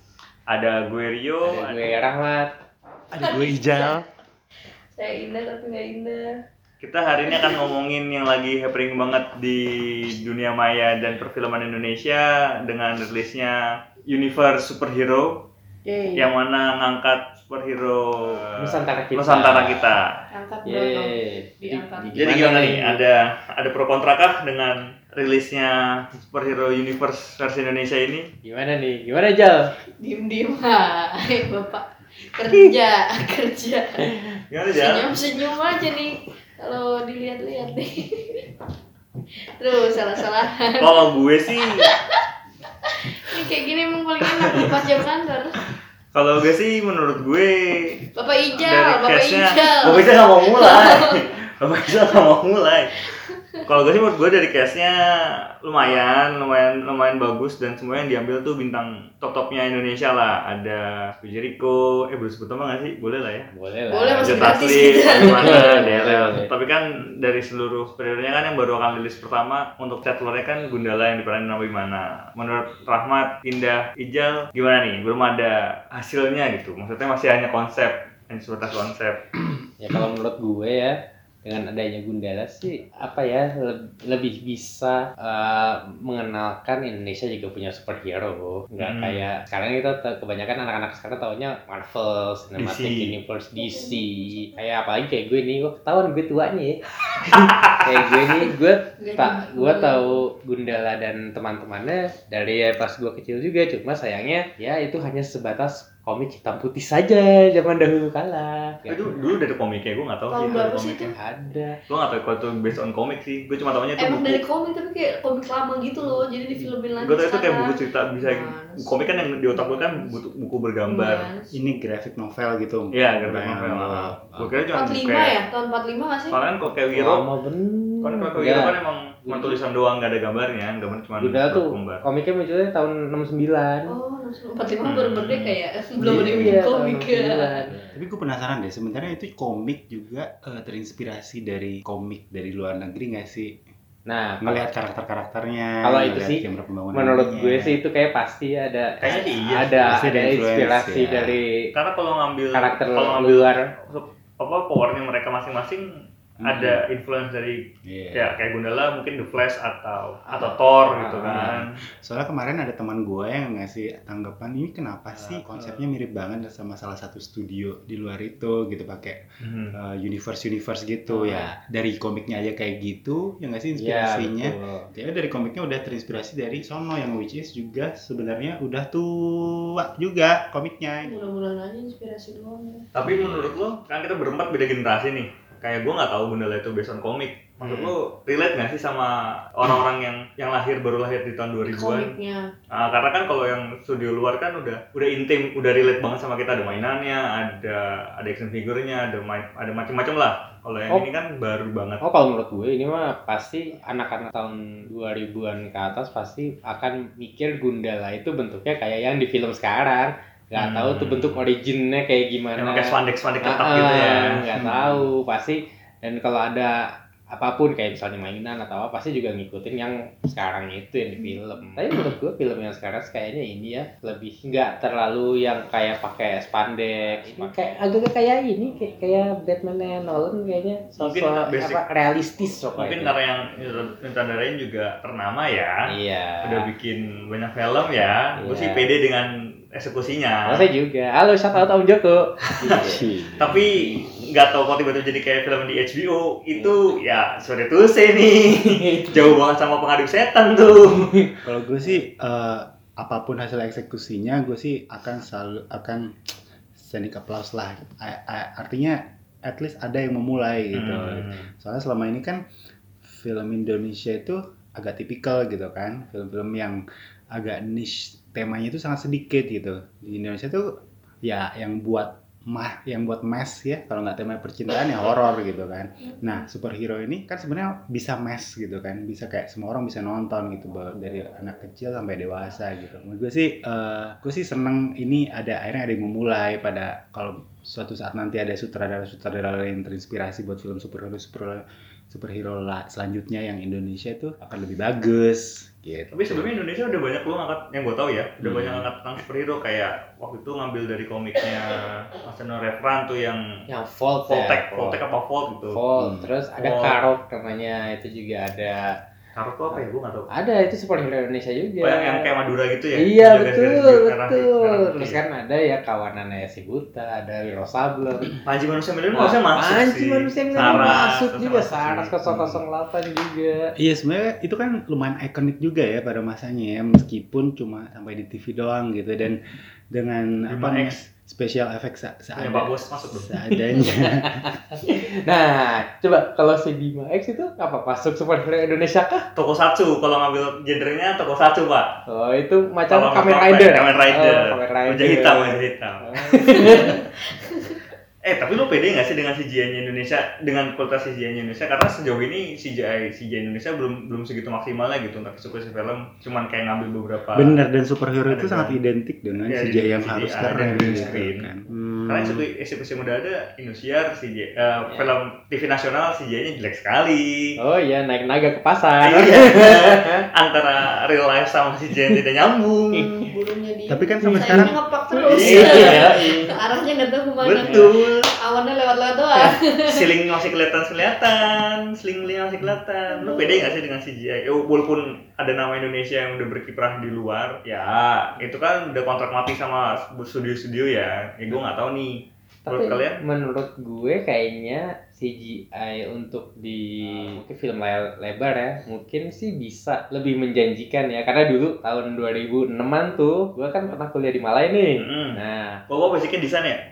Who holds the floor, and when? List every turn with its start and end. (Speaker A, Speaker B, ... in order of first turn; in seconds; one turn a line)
Speaker A: 0.5-1.9
Speaker B: 1.4-2.5
Speaker C: 3.1-4.0
Speaker D: 3.2-4.0
Speaker D: 5.0-6.3
Speaker A: 6.8-15.5
Speaker D: 7.3-7.5
Speaker D: 15.8-16.3
Speaker A: 16.1-18.6
Speaker B: 18.5-19.9
Speaker A: 19.1-20.0
Speaker D: 20.3-22.2
Speaker B: 20.6-23.0
Speaker A: 22.2-28.3
Speaker B: 28.4-29.7
Speaker D: 30.0-34.2
Speaker A: 34.5-35.1
Speaker D: 34.7-38.5
Speaker D: 39.6-41.1
Speaker A: 40.8-41.9
Speaker D: 41.6-42.2
Speaker D: 42.8-45.6
Speaker A: 44.2-44.7
Speaker A: 46.1-53.0
Speaker D: 48.1-51.2
Speaker D: 53.0-53.6
Speaker A: 53.6-55.0
Speaker A: 55.6-63.5
Speaker B: 63.5-66.5
Speaker D: 63.9-65.8
Speaker A: 64.2-79.2
Speaker B: 79.8-109.0
Speaker A: 88.8-89.2
Speaker A: 92.6-93.1
Speaker D: 93.5-94.5
Speaker A: 97.4-97.8
Speaker D: 99.0-100.2
Speaker A: 108.9-111.1
Speaker D: 110.3-111.1
Speaker B: 111.2-111.8
Speaker A: 111.9-114.4
Speaker D: 114.0-120.2
Speaker A: 117.0-121.3
Speaker D: 120.8-121.5
Speaker C: 121.5-124.5
Speaker A: 122.9-125.4
Speaker D: 124.7-126.4
Speaker A: 126.3-127.2
Speaker B: 126.9-129.6
Speaker A: 128.0-132.0
Speaker B: 131.2-133.9
Speaker D: 133.9-137.7
Speaker A: 134.8-135.6
Speaker C: 136.0-136.6
Speaker B: 136.0-137.9
Speaker C: 137.9-143.6
Speaker B: 144.1-144.6
Speaker C: 144.4-147.8
Speaker B: 145.8-151.6
Speaker A: 149.0-149.8
Speaker D: 149.1-149.3
Speaker C: 149.8-151.4
Speaker A: 151.7-155.8
Speaker B: 152.5-153.7
Speaker C: 156.4-156.8
Speaker A: 156.4-161.7
Speaker C: 157.8-158.4
Speaker B: 160.3-161.5
Speaker C: 161.2-169.2
Speaker B: 165.2-165.8
Speaker A: 169.4-169.8
Speaker C: 169.7-181.2
Speaker B: 171.1-171.5
Speaker B: 173.7-174.9
Speaker D: 181.0-182.9
Speaker A: 182.9-192.1
Speaker B: 187.6-187.9
Speaker D: 191.7-192.5
Speaker A: 192.7-202.0
Speaker B: 202.0-212.9
Speaker A: 210.6-211.4
Speaker A: 212.6-214.4
Speaker B: 213.4-216.8
Speaker C: 214.5-215.1
Speaker B: 217.3-233.1
Speaker A: 231.0-231.8
Speaker A: 232.8-235.7
Speaker B: 235.9-236.7
Speaker A: 236.4-240.7
Speaker B: 238.4-238.9
Speaker B: 240.5-243.1
Speaker C: 242.7-243.6
Speaker A: 243.4-251.1
Speaker B: 246.5-246.9
Speaker B: 248.5-249.3
Speaker B: 251.0-251.3
Speaker C: 251.4-256.1
Speaker C: 256.8-262.4
Speaker A: 260.7-261.5
Speaker C: 263.0-266.8
Speaker C: 267.3-270.7
Speaker C: 271.2-296.5
Speaker A: 296.1-303.4
Speaker C: 298.4-298.9
Speaker B: 303.7-305.0
Speaker A: 304.3-305.8
Speaker B: 305.7-309.0
Speaker C: 305.9-306.3
Speaker A: 306.6-307.0
Speaker A: 309.3-310.3
Speaker B: 309.7-312.3
Speaker A: 311.8-315.2
Speaker B: 313.0-318.3
Speaker A: 318.4-322.1
Speaker B: 319.1-323.7
Speaker C: 320.7-321.0
Speaker C: 322.3-322.6
Speaker C: 323.8-329.4
Speaker C: 329.9-334.5
Speaker A: 330.5-331.0
Speaker A: 332.4-333.4
Speaker B: 333.8-339.2
Speaker A: 339.4-341.9
Speaker B: 342.1-347.0
Speaker A: 342.9-347.0
Speaker D: 346.7-347.8
Speaker A: 348.2-357.6
Speaker C: 357.4-362.4
Speaker A: 358.3-358.8
Speaker A: 359.4-361.5
Speaker B: 360.4-361.1
Speaker A: 362.1-367.5
Speaker B: 364.9-365.1
Speaker B: 367.6-370.2
Speaker A: 369.0-373.2
Speaker B: 372.9-373.3
Speaker D: 373.2-380.1
Speaker C: 373.9-374.8
Speaker B: 374.2-374.7
Speaker A: 375.3-376.4
Speaker B: 375.4-376.4
Speaker A: 377.4-378.3
Speaker A: 379.4-392.1
Speaker D: 383.1-383.8
Speaker A: 392.7-393.2
Speaker B: 392.7-405.8
Speaker A: 405.0-406.8